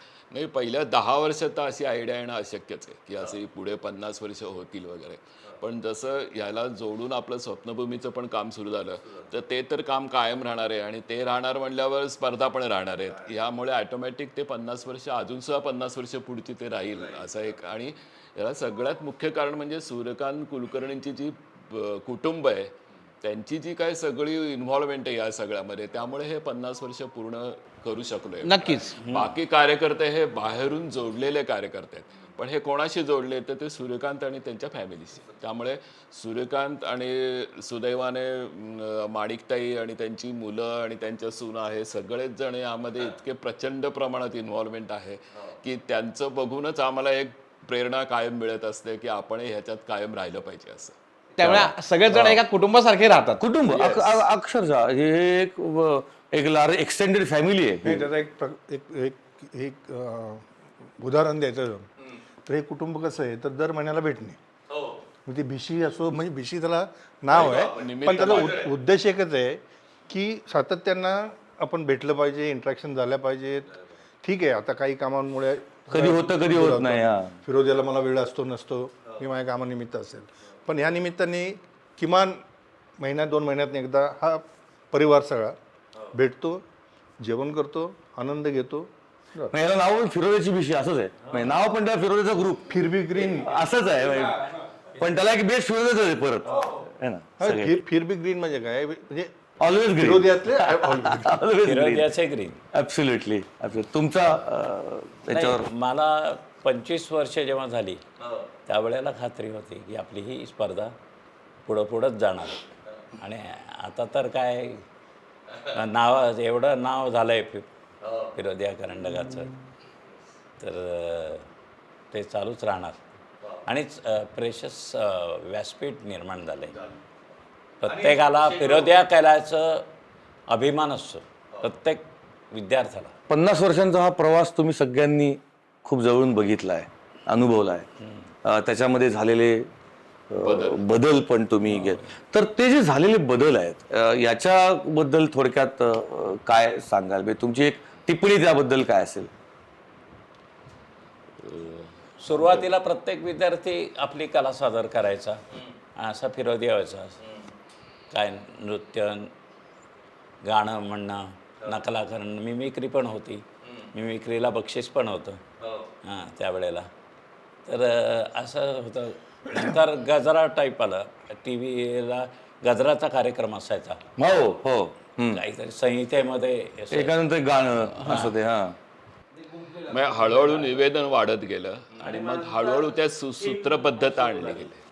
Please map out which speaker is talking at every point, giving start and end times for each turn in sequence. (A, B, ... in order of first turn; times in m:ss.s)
0:00.3-0:50.9 A
0:28.4-0:28.9 B
0:29.0-0:29.3 C
0:51.4-0:53.4 B
0:51.4-0:52.4 D
0:53.4-0:58.1 D
0:53.7-0:54.2 A
0:57.8-1:01.9 E
1:02.4-1:04.4 E
1:05.2-1:22.4 E
1:07.3-1:08.7 A
1:15.9-1:17.4 D
1:23.0-1:25.6 E
1:26.1-1:26.6 E
1:27.2-1:29.5 E
1:29.5-1:32.8 D
1:32.7-1:33.6 E
1:33.4-1:37.8 D
1:37.4-1:41.4 E
1:39.6-1:42.1 D
1:41.6-1:42.6 C
1:42.7-1:45.7 D
1:45.3-1:48.0 C
1:48.7-1:50.9 C
1:51.6-1:52.6 C
1:53.2-1:54.8 C
1:55.7-1:57.7 C
1:58.3-1:59.5 C
2:00.6-2:01.4 C
2:02.1-2:03.1 C
2:03.6-2:06.8 C
2:07.8-2:09.9 C
2:10.5-2:13.1 C
2:13.3-2:17.9 D
2:18.4-2:19.7 D
2:20.3-2:29.3 D
2:20.4-2:20.8 A
2:31.4-2:32.6 A
2:32.2-2:35.4 C
2:36.0-2:37.2 C
2:38.1-2:39.3 C
2:40.4-2:45.4 C
2:46.0-2:46.9 C
2:47.6-2:54.0 C
2:54.2-2:55.4 D
2:55.3-2:57.1 C
2:56.9-2:58.8 D
2:57.9-2:58.3 C
2:59.8-3:04.8 A